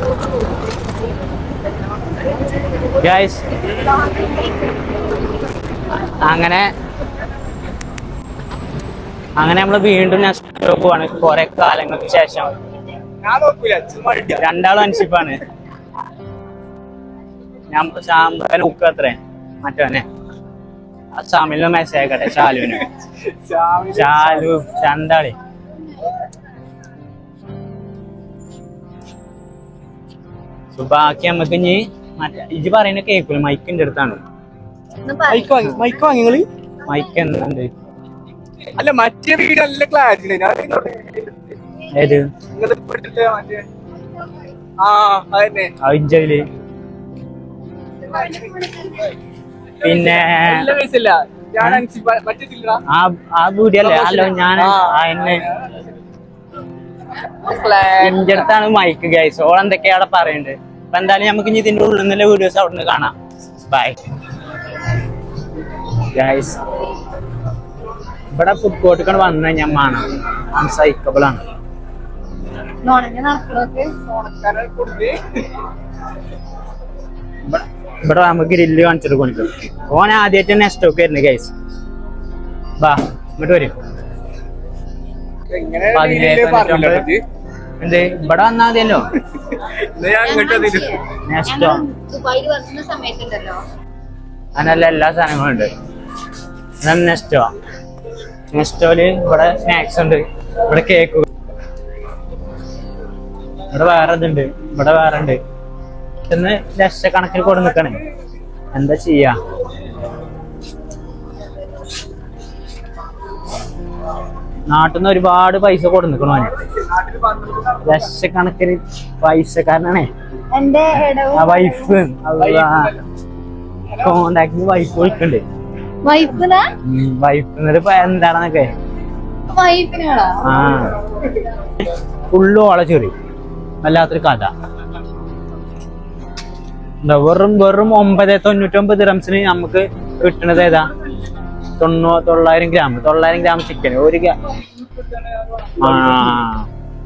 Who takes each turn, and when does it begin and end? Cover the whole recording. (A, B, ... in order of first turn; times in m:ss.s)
0:03.0-0:03.4 A
0:06.2-0:06.7 A
0:09.4-0:12.5 A
0:13.2-0:14.4 B
0:14.4-0:15.4 A
0:17.7-0:20.0 A
0:21.2-0:22.9 A
0:22.5-0:24.5 B
0:23.9-0:25.3 A
0:30.7-0:34.2 A
0:35.0-0:36.1 C
0:35.3-0:36.5 B
0:36.8-0:37.7 A
0:38.7-0:41.6 B
0:41.9-0:42.3 A
0:42.5-0:43.6 B
0:44.8-0:45.7 B
0:45.8-0:46.4 A
0:48.0-0:49.1 C
0:49.8-0:52.8 B
0:49.8-0:50.7 A
0:52.9-0:55.4 A
0:53.8-0:55.8 B
0:57.2-0:58.4 B
0:58.0-1:03.1 A
1:03.7-1:04.0 A
1:06.1-1:06.6 A
1:08.3-1:11.4 A
1:12.8-1:13.9 C
1:14.1-1:15.4 B
1:17.4-1:21.5 A
1:22.8-1:23.7 A
1:25.5-1:27.2 B
1:25.9-1:27.1 A
1:27.8-1:29.1 A
1:29.5-1:31.0 B
1:30.2-1:33.6 C
1:31.2-1:31.8 A
1:34.6-1:35.7 A
1:36.8-1:37.5 A
1:38.5-1:41.3 A
1:43.7-1:45.4 A
1:46.3-1:48.0 A
1:48.7-1:49.4 A
1:54.7-1:56.5 A
1:56.9-1:57.8 B
1:57.8-2:00.1 A
2:00.5-2:01.9 C
2:01.3-2:02.9 A
2:02.4-2:03.0 B
2:04.0-2:05.4 A
2:06.0-2:06.7 C
2:06.8-2:08.7 A
2:09.5-2:10.7 C
2:10.4-2:11.0 A
2:12.3-2:13.1 A
2:13.8-2:14.5 A
2:17.0-2:20.9 A
2:21.8-2:24.3 A
2:25.8-2:26.7 A